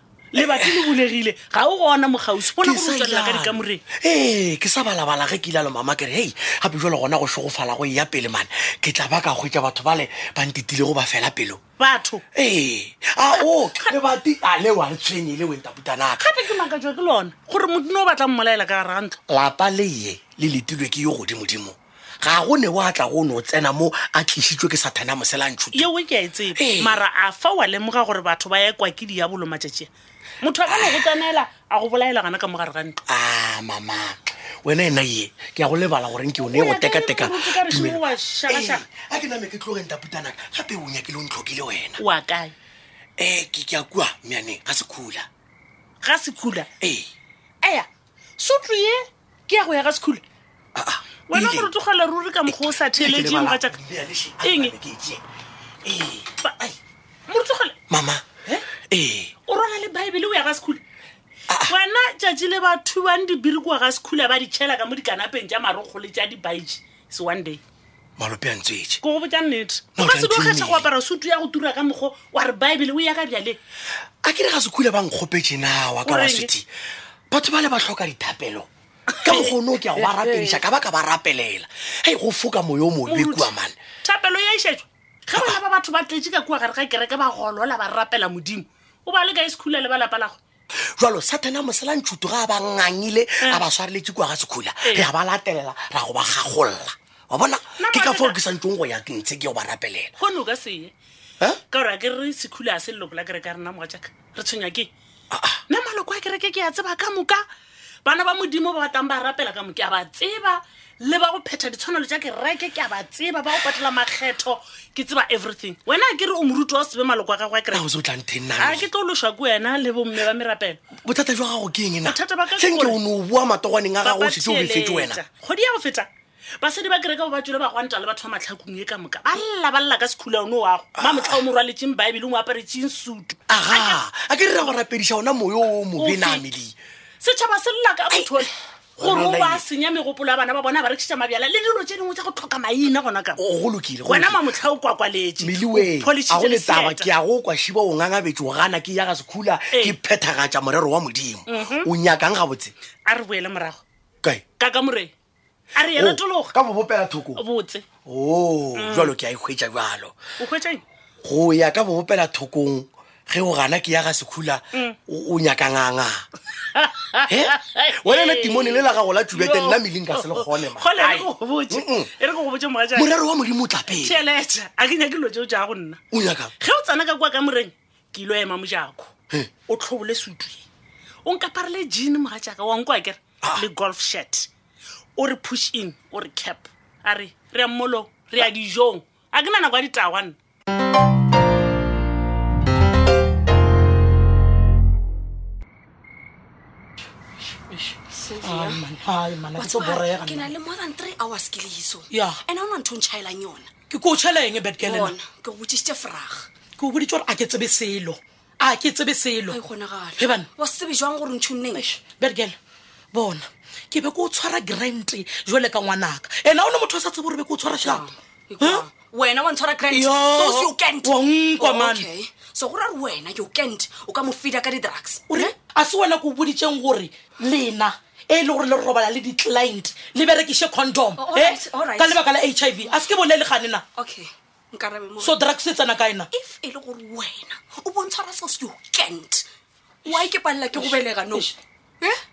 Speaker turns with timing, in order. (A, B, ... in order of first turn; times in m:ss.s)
0:00.3-0:03.8 A
0:00.4-0:00.9 B
0:02.6-0:11.6 B
0:11.8-0:12.2 A
0:12.4-0:16.4 B
0:13.4-0:14.0 A
0:16.2-0:19.2 A
0:19.3-0:25.9 B
0:25.7-0:29.9 A
0:26.6-0:27.0 B
0:30.4-0:33.0 A
0:30.7-0:31.0 B
0:33.1-0:42.0 B
0:36.4-0:38.8 A
0:42.0-0:42.6 A
0:43.2-0:45.3 B
0:46.0-0:46.7 A
0:47.6-0:47.9 A
0:48.4-0:50.2 A
0:50.8-0:51.7 B
0:51.3-0:53.8 A
0:52.5-0:55.2 B
0:54.4-0:54.7 A
0:55.8-0:56.3 B
0:56.4-0:57.8 A
0:57.9-0:58.2 B
0:58.9-0:59.3 B
0:59.5-1:00.8 A
1:01.7-1:07.6 A
1:08.2-1:09.0 B
1:09.0-1:13.6 A
1:10.0-1:10.9 B
1:14.2-1:16.7 B
1:16.0-1:16.5 A
1:17.3-1:18.7 B
1:19.2-1:20.6 A
1:19.2-1:23.8 B
1:23.1-1:23.5 A
1:24.0-1:30.4 A
1:31.0-1:40.1 B
1:33.4-1:33.7 A
1:34.8-1:35.1 A
1:37.8-1:38.4 A
1:40.2-1:40.9 A
1:41.7-1:44.9 A
1:45.3-1:45.6 B
1:45.7-1:47.4 A
1:48.0-1:57.8 A
1:57.7-1:58.8 B
1:58.6-2:00.8 A
2:01.0-2:05.2 B
2:02.0-2:03.0 A
2:04.0-2:06.1 A
2:06.6-2:14.0 A
2:11.0-2:11.4 B
2:13.5-2:16.8 B
2:16.0-2:16.4 A
2:17.2-2:23.4 A
2:18.1-2:19.6 B
2:23.4-2:24.4 B
2:24.0-2:27.1 A
2:25.4-2:32.7 B
2:31.5-2:31.9 A
2:33.1-2:33.8 A
2:34.6-2:35.1 A
2:35.8-2:36.5 A
2:36.0-2:37.4 B
2:37.4-2:37.9 A
2:38.1-2:40.2 B
2:38.8-2:39.1 A
2:40.4-2:40.8 A
2:41.2-2:46.2 B
2:46.7-2:53.1 A
2:47.3-2:52.1 B
2:53.0-2:54.2 B
2:53.9-2:56.0 A
2:56.1-2:56.5 B
2:56.6-2:59.1 A
2:59.7-3:00.6 A
3:01.2-3:04.5 A
3:05.2-3:10.4 A
3:18.1-3:18.8 C
3:18.4-3:20.6 D
3:19.6-3:23.7 C
3:22.1-3:22.4 D
3:23.9-3:25.2 D
3:24.8-3:26.5 C
3:26.8-3:29.6 D
3:29.5-3:31.8 C
3:30.2-3:30.5 D
3:31.7-3:32.6 D
3:33.1-3:38.9 D
3:37.8-3:45.5 C
3:39.9-3:42.1 D
3:45.3-3:53.8 D
3:51.2-3:52.2 C
3:54.0-3:55.4 C
3:55.2-3:56.3 D
3:56.4-3:59.4 C
4:00.0-4:01.5 D
4:00.1-4:01.5 C